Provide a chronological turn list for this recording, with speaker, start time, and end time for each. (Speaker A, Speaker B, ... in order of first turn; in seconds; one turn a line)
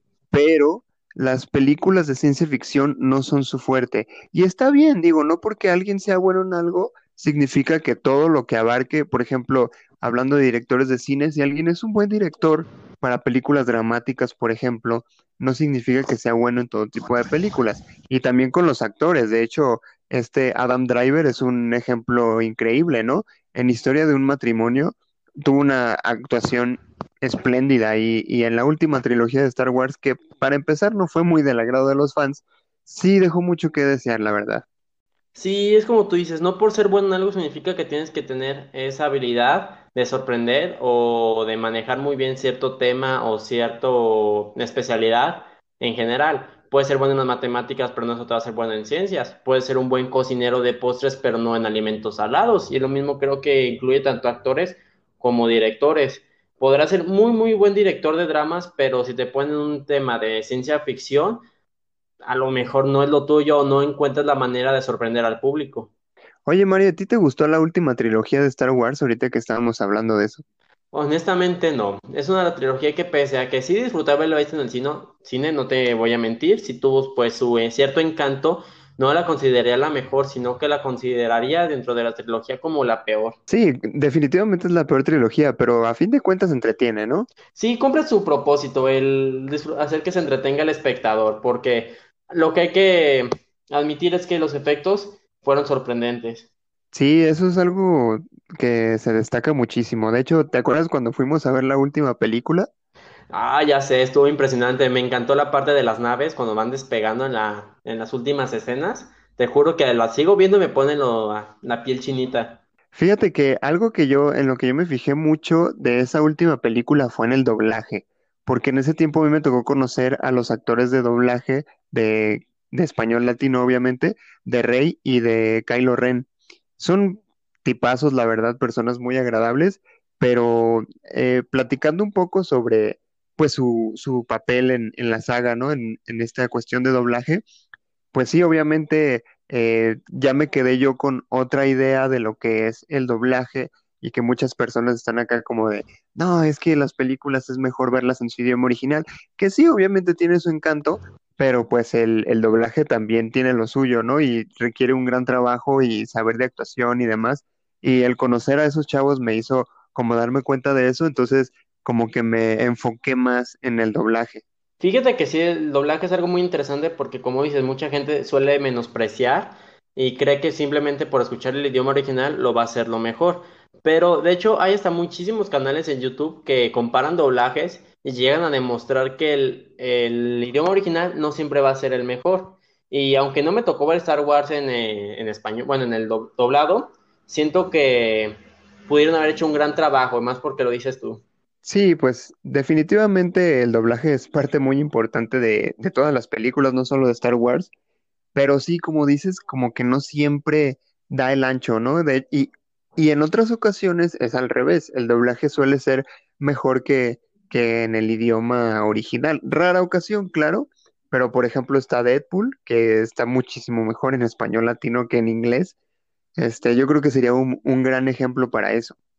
Speaker A: 0.3-34.6
Speaker B: 35.4-61.4
Speaker B: 62.2-65.9
Speaker A: 66.5-70.4
Speaker B: 70.9-83.4
Speaker A: 83.5-87.3
Speaker B: 87.5-96.5
Speaker A: 96.9-102.7
Speaker B: 103.3-112.6
Speaker A: 112.9-137.4
Speaker A: 138.1-164.4
Speaker B: 164.8-188.4
Speaker B: 188.9-191.2
Speaker A: 191.6-197.7
Speaker A: 198.3-215.7
Speaker A: 216.4-218.9